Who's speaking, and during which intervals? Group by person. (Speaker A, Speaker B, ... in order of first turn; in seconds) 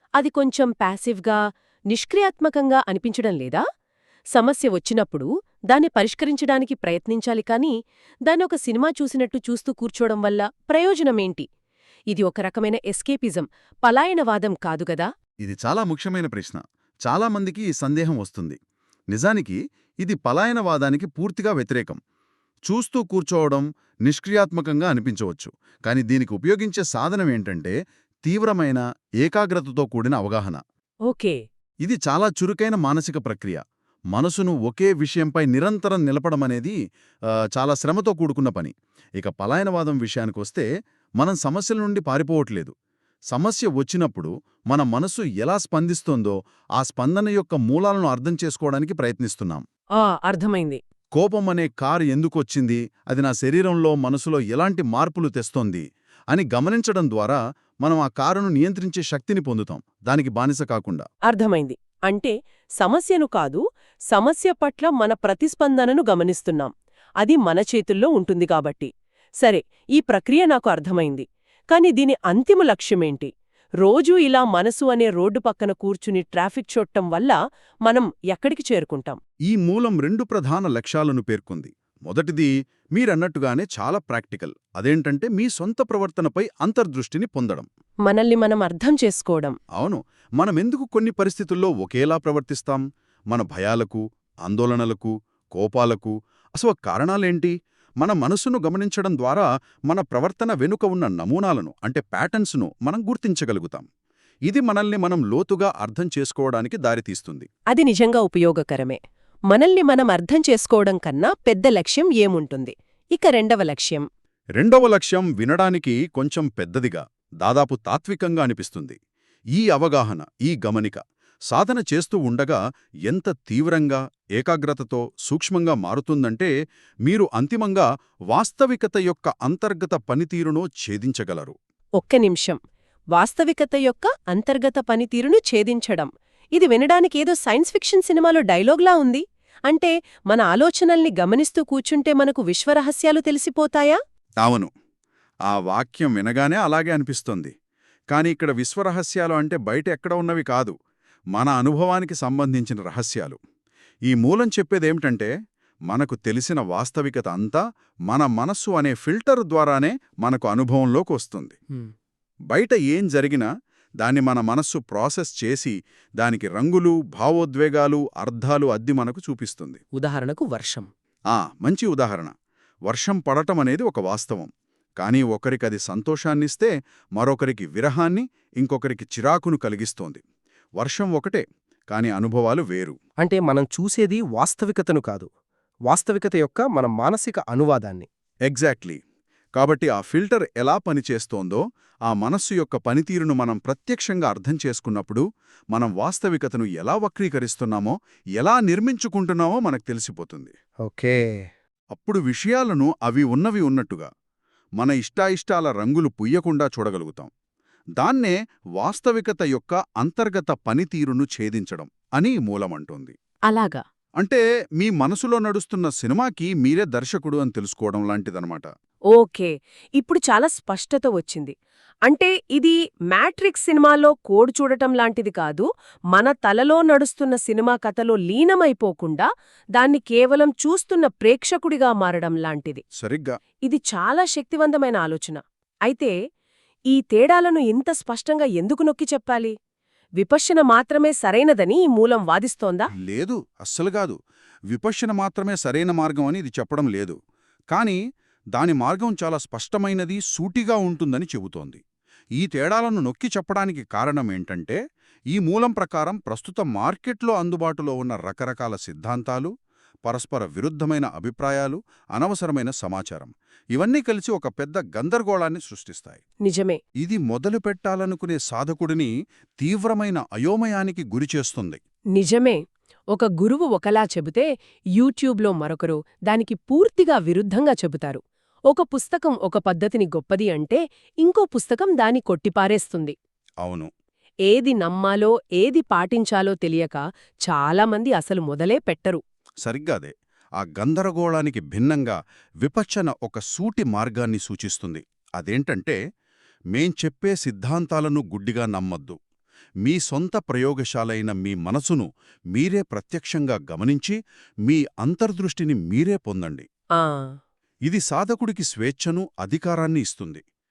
Speaker A: 0.2-1.4, 1.9-3.6, 4.3-7.7, 8.3-11.5, 12.1-15.1, 31.1-31.4, 50.0-50.8, 61.3-63.6, 64.1-68.9, 69.4-73.3, 73.8-77.3, 77.9-79.2, 88.1-89.5, 107.7-109.0, 109.5-114.1, 132.0-132.6, 133.1-144.0, 170.0-170.9, 213.5-213.8, 219.1-221.5, 222.1-232.8, 233.7-236.1, 236.9-239.5, 240.2-242.9, 266.4-266.8, 272.1-272.6, 273.1-283.1, 284.5-289.2, 307.0-307.3
Speaker B: 15.4-18.6, 19.1-22.0, 22.7-30.6, 31.8-33.6, 34.1-36.8, 37.5-40.7, 41.2-42.7, 43.3-49.6, 51.1-61.0, 79.5-87.7, 89.8-103.9, 104.5-107.5, 114.6-119.0, 119.5-126.5, 127.0-131.6, 144.4-144.7, 145.5-147.5, 148.1-150.7, 151.3-153.4, 154.1-155.3, 155.9-161.6, 162.5-163.5, 164.0-169.8, 171.3-172.3, 172.9-180.2, 180.8-182.9, 188.5-189.0, 189.6-200.5, 201.9-204.1, 204.8-207.3, 208.0-213.1, 214.2-218.7, 233.0-233.3, 243.0-244.2, 244.7-247.2, 247.7-248.0, 248.5-251.8, 252.4-254.8, 255.3-259.5, 260.1-266.2, 267.0-271.8, 283.6-283.9, 289.6-296.0, 296.7-299.2, 299.8-306.7, 307.9-310.4
Speaker C: 183.2-185.3, 185.9-188.1